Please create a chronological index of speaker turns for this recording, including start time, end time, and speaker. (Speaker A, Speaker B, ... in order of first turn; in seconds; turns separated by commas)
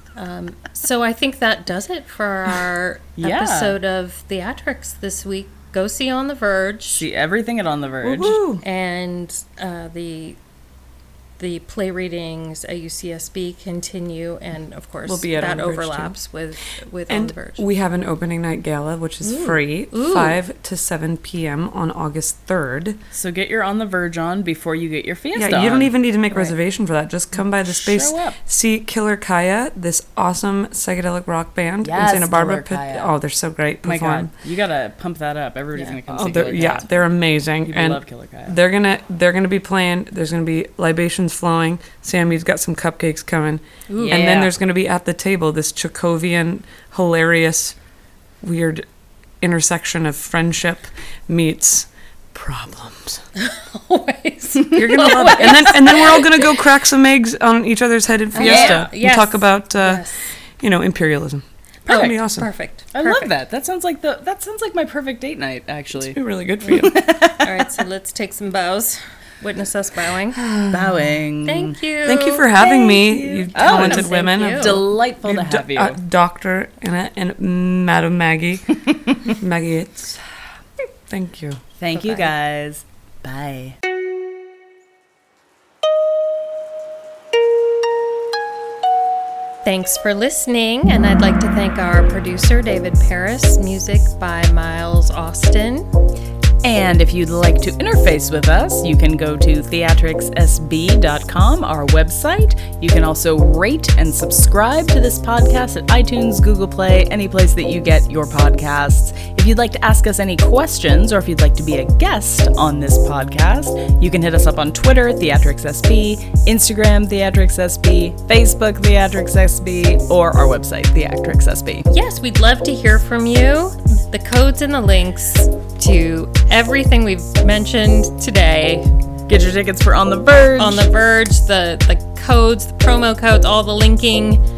Speaker A: 0.1-7.0, Speaker B: 3.2-3.8, Speaker B: 6.9-8.4, Speaker C: 8.0-8.6, Speaker A: 8.6-10.4, Speaker A: 11.4-17.6, Speaker C: 15.0-16.1, Speaker C: 17.1-23.0, Speaker A: 19.4-20.4, Speaker B: 23.1-25.9, Speaker C: 25.4-34.3, Speaker B: 27.6-28.4, Speaker B: 31.8-33.1, Speaker B: 33.8-37.0, Speaker C: 36.1-47.8, Speaker B: 37.6-38.6, Speaker A: 43.9-44.3, Speaker B: 44.0-44.5, Speaker C: 48.4-48.9, Speaker C: 49.4-53.2, Speaker A: 53.4-56.6, Speaker C: 54.7-60.0, Speaker A: 58.3-60.2, Speaker B: 58.4-58.9, Speaker C: 60.6-62.5, Speaker B: 61.9-62.1, Speaker A: 61.9-63.3, Speaker B: 62.9-66.2, Speaker C: 66.0-67.0, Speaker B: 66.7-67.7, Speaker A: 67.4-70.4, Speaker C: 70.4-71.2, Speaker B: 70.7-71.8, Speaker A: 71.4-72.5, Speaker C: 72.0-80.2, Speaker B: 72.5-76.0, Speaker A: 73.5-74.8, Speaker C: 81.1-81.6, Speaker B: 81.8-83.8, Speaker A: 81.9-82.3, Speaker A: 89.6-95.9, Speaker B: 96.6-121.9, Speaker A: 121.9-128.9, Speaker B: 129.3-130.9, Speaker A: 130.6-134.4